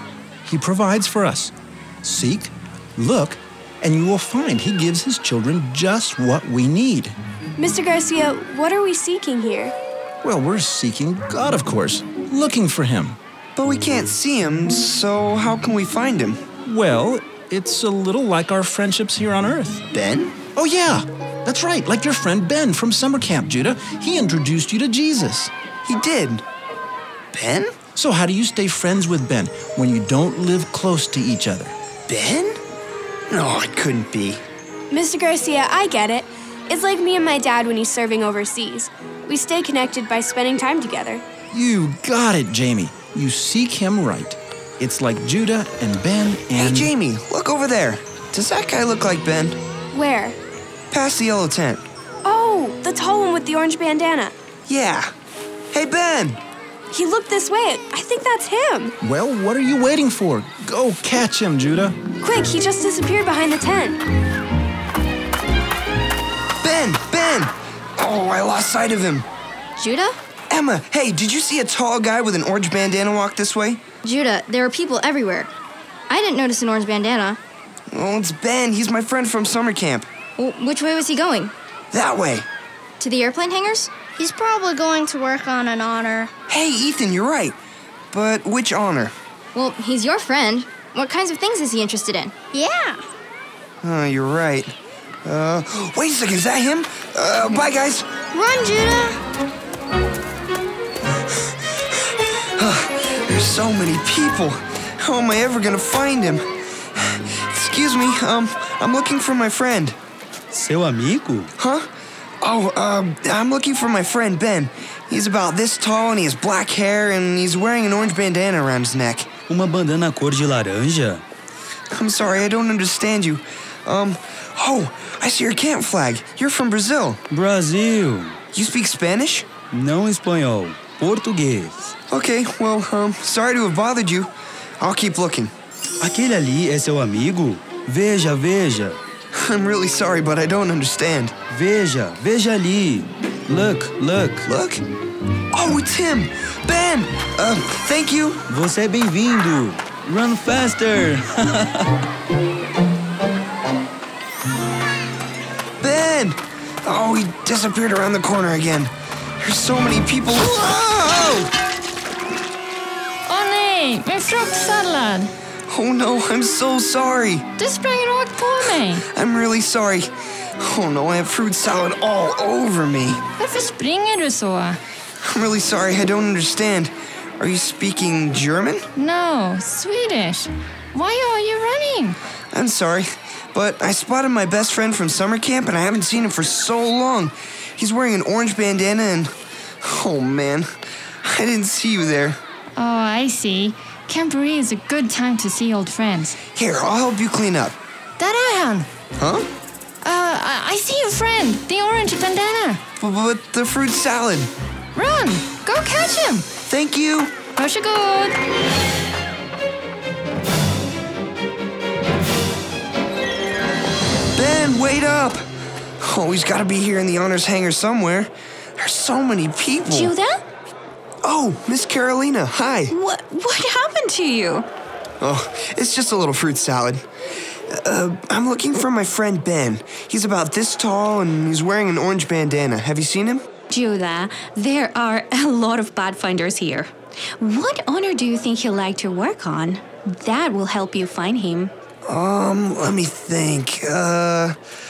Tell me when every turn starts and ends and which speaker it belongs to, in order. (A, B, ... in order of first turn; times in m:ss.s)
0:00.5-0:07.2 A
0:07.6-0:09.7 B
0:10.2-0:13.2 A
0:13.6-0:16.4 C
0:16.6-0:19.8 A
0:19.9-0:20.4 C
0:20.6-0:25.5 A
0:25.8-0:26.4 C
0:27.3-0:27.7 C
0:28.0-0:31.8 A
0:32.1-0:32.6 C
0:33.3-0:34.4 C
0:34.9-0:41.2 B
0:41.5-0:46.9 A
0:46.6-0:49.6 C
0:49.9-0:50.4 B
0:50.9-0:51.8 C
0:52.2-0:54.4 B
0:54.7-0:55.1 C
0:55.7-0:56.4 C
0:56.9-0:58.9 B
0:59.0-1:02.0 A
1:02.2-1:04.0 B
1:06.6-1:09.3 C
1:09.8-1:10.2 D
1:10.5-1:13.8 C
1:14.0-1:15.5 D
1:16.1-1:17.4 D
1:17.9-1:20.1 C
1:20.4-1:21.5 D
1:21.9-1:22.5 C
1:23.0-1:23.9 D
1:24.1-1:26.3 E
1:26.5-1:27.6 C
1:28.1-1:29.1 C
1:29.6-1:32.4 D
1:32.5-1:33.0 E
1:33.8-1:38.1 C
1:38.3-1:39.2 E
1:42.6-1:46.5 C
1:47.0-1:50.0 C
1:50.5-1:51.5 F
1:51.6-1:51.9 C
1:52.4-1:59.3 C
1:59.5-2:01.2 F
2:01.9-2:07.2 C
2:07.3-2:08.4 F
2:08.5-2:09.5 C
2:09.7-2:11.9 F
2:12.1-2:15.5 C
2:16.0-2:19.0 F
2:19.3-2:21.4 C
2:21.5-2:24.5 F
2:24.5-2:24.8 C
2:25.5-2:28.4 C
2:28.5-2:32.0 F
2:35.8-2:41.5 C
2:43.3-2:45.3 G
2:45.7-2:47.5 C
2:47.6-2:49.0 G
2:48.6-2:53.2 C
2:53.4-2:54.8 G
2:55.2-2:58.9 C
2:59.0-3:02.2 G
3:02.5-3:10.7 C
3:11.2-3:12.4 C
3:12.8-3:16.4 G
3:16.5-3:17.8 C
3:18.2-3:18.9 G
3:19.2-3:19.5 C
3:20.0-3:22.8 G
3:23.0-3:24.5 C
3:24.9-3:26.5 G
3:26.7-3:27.3 C
3:27.6-3:28.4 G
3:34.4-3:35.4 C
3:36.0-3:40.1 C
3:39.9-3:40.4 H
3:41.2-3:42.9 C
3:42.9-3:44.6 H
3:45.2-3:47.0 C
3:47.7-3:53.4 C
3:53.7-3:56.5 H
3:57.5-3:59.7 H
4:00.7-4:01.7 H
4:02.1-4:04.6 C